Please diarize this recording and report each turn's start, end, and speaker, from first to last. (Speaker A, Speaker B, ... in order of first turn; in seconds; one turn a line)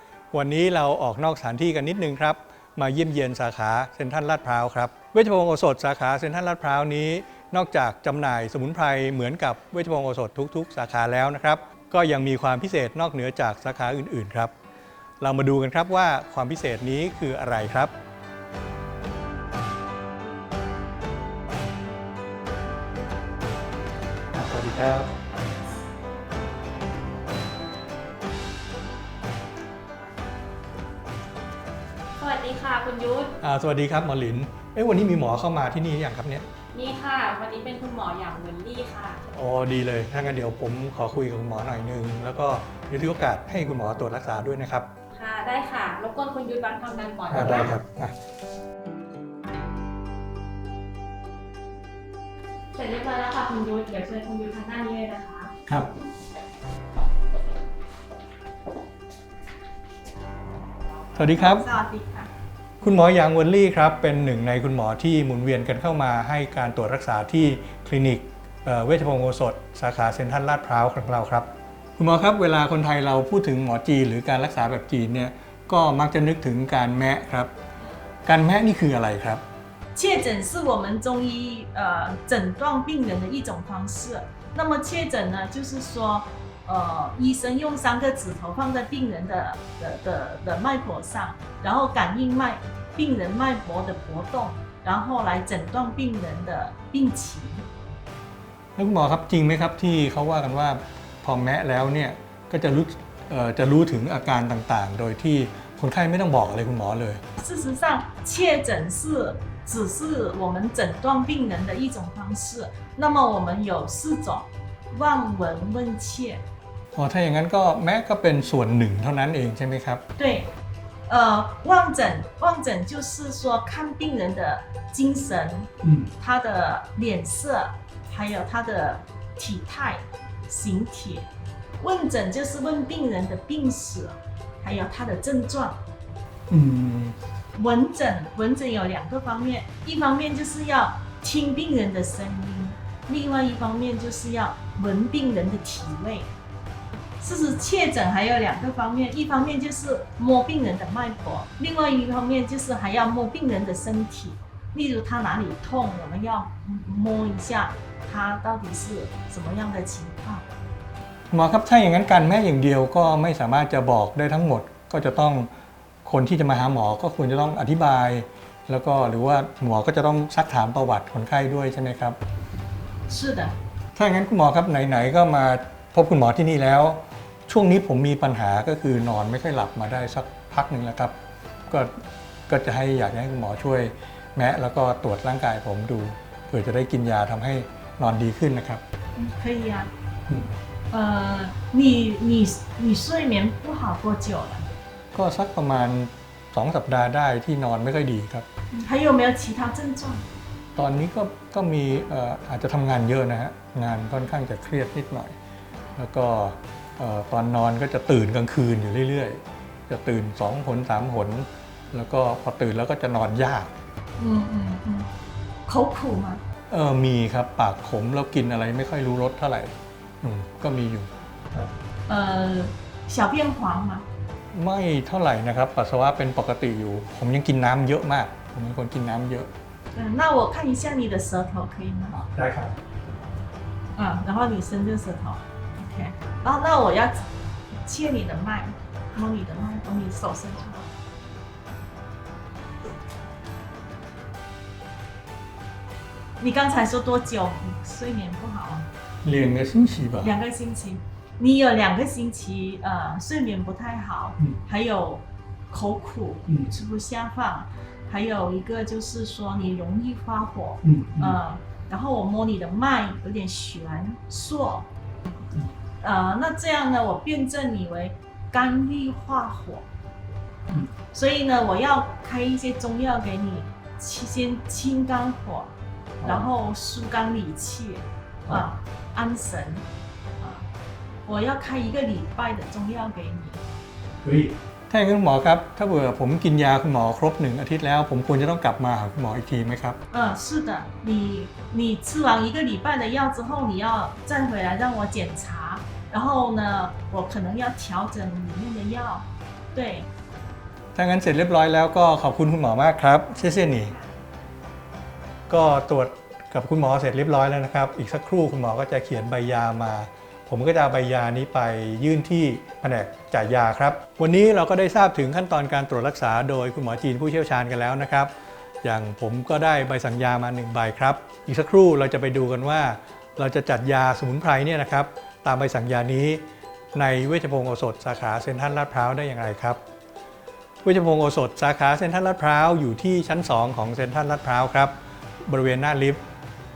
Speaker A: 0.3-14.5
Speaker A: 15.2-17.9
Speaker A: 24.3-25.1
Speaker B: 32.2-33.3
Speaker A: 33.4-36.5
Speaker B: 36.7-39.2
Speaker A: 39.3-44.9
Speaker B: 45.1-47.7
Speaker A: 47.3-48.1
Speaker B: 52.7-55.5
Speaker A: 61.1-61.7
Speaker C: 61.3-62.3
Speaker A: 62.8-77.5
Speaker A: 78.2-79.4
Speaker C: 79.9-97.7
Speaker A: 98.8-107.2
Speaker C: 107.4-116.4
Speaker A: 116.9-120.0
Speaker C: 120.2-120.5
Speaker C: 121.1-131.3
Speaker C: 131.8-135.8
Speaker A: 136.5-137.2
Speaker C: 137.5-146.3
Speaker C: 147.2-160.4
Speaker A: 161.3-165.5
Speaker A: 166.0-172.2
Speaker C: 173.1-173.5
Speaker A: 173.9-181.1
Speaker A: 182.5-188.8
Speaker C: 189.2-189.9
Speaker C: 190.9-194.7
Speaker A: 195.1-198.4
Speaker C: 198.7-200.2
Speaker A: 200.8-205.3
Speaker A: 205.9-213.7
Speaker C: 214.2-215.1
Speaker C: 215.7-216.4
Speaker A: 216.7-221.7
Speaker C: 222.1-224.0
Speaker A: 224.5-229.5
Speaker C: 229.9-232.2
Speaker A: 232.1-232.8
Speaker C: 233.9-240.9
Speaker C: 246.4-248.9
Speaker A: 249.2-250.3
Speaker C: 250.2-264.9
Speaker A: 260.8-261.4
Speaker C: 266.0-269.9
Speaker C: 271.0-279.9
Speaker A: 276.2-276.5
Speaker C: 280.4-280.7
Speaker C: 281.2-283.6
Speaker A: 284.2-290.0
Speaker C: 290.1-300.1
Speaker A: 300.9-303.9
Speaker A: 305.5-326.4
Speaker A: 326.9-329.8
Speaker A: 330.8-336.2